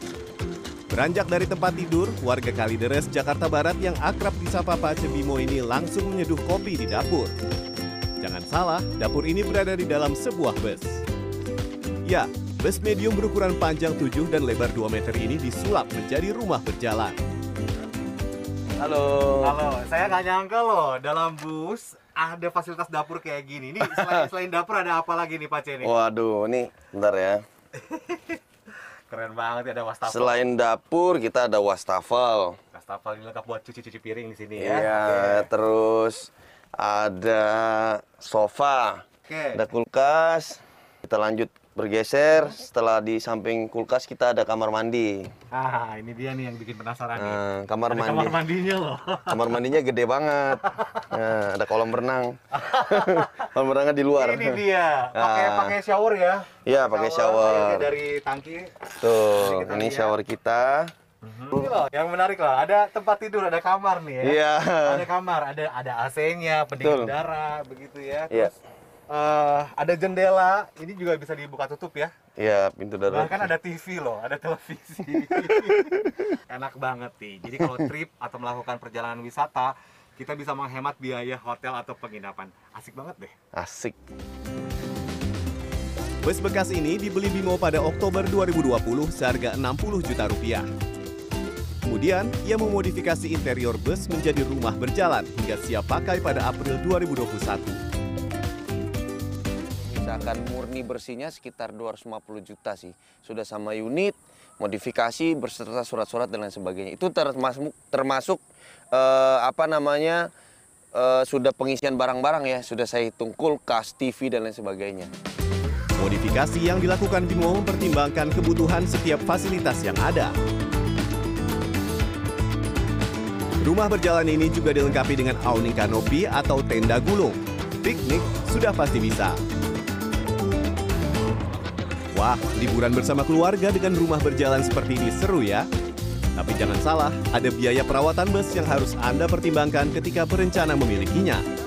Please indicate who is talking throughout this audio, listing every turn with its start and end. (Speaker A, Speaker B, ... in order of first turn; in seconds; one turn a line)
Speaker A: 0.9-7.3
Speaker A: 8.2-11.0
Speaker A: 12.1-17.2
Speaker B: 18.8-19.6
Speaker C: 19.4-25.9
Speaker B: 25.8-27.4
Speaker C: 27.8-28.4
Speaker C: 29.1-30.4
Speaker B: 30.1-32.6
Speaker C: 32.7-35.5
Speaker B: 34.6-45.3
Speaker C: 39.3-39.6
Speaker C: 45.5-49.6
Speaker B: 47.1-48.4
Speaker B: 49.3-55.8
Speaker C: 50.8-51.0
Speaker C: 52.5-53.5
Speaker C: 54.1-58.7
Speaker B: 56.6-57.9
Speaker B: 59.0-60.9
Speaker C: 59.4-60.1
Speaker C: 61.2-68.6
Speaker B: 64.2-65.1
Speaker B: 66.8-67.1
Speaker C: 69.1-72.1
Speaker B: 72.3-73.5
Speaker C: 73.1-83.3
Speaker B: 75.4-76.0
Speaker B: 83.5-84.0
Speaker A: 86.2-90.7
Speaker A: 91.8-97.8
Speaker B: 99.8-108.4
Speaker B: 108.9-110.3
Speaker B: 110.9-115.1
Speaker A: 116.0-120.3
Speaker A: 123.6-129.4
Speaker A: 132.1-135.7
Speaker A: 136.3-141.4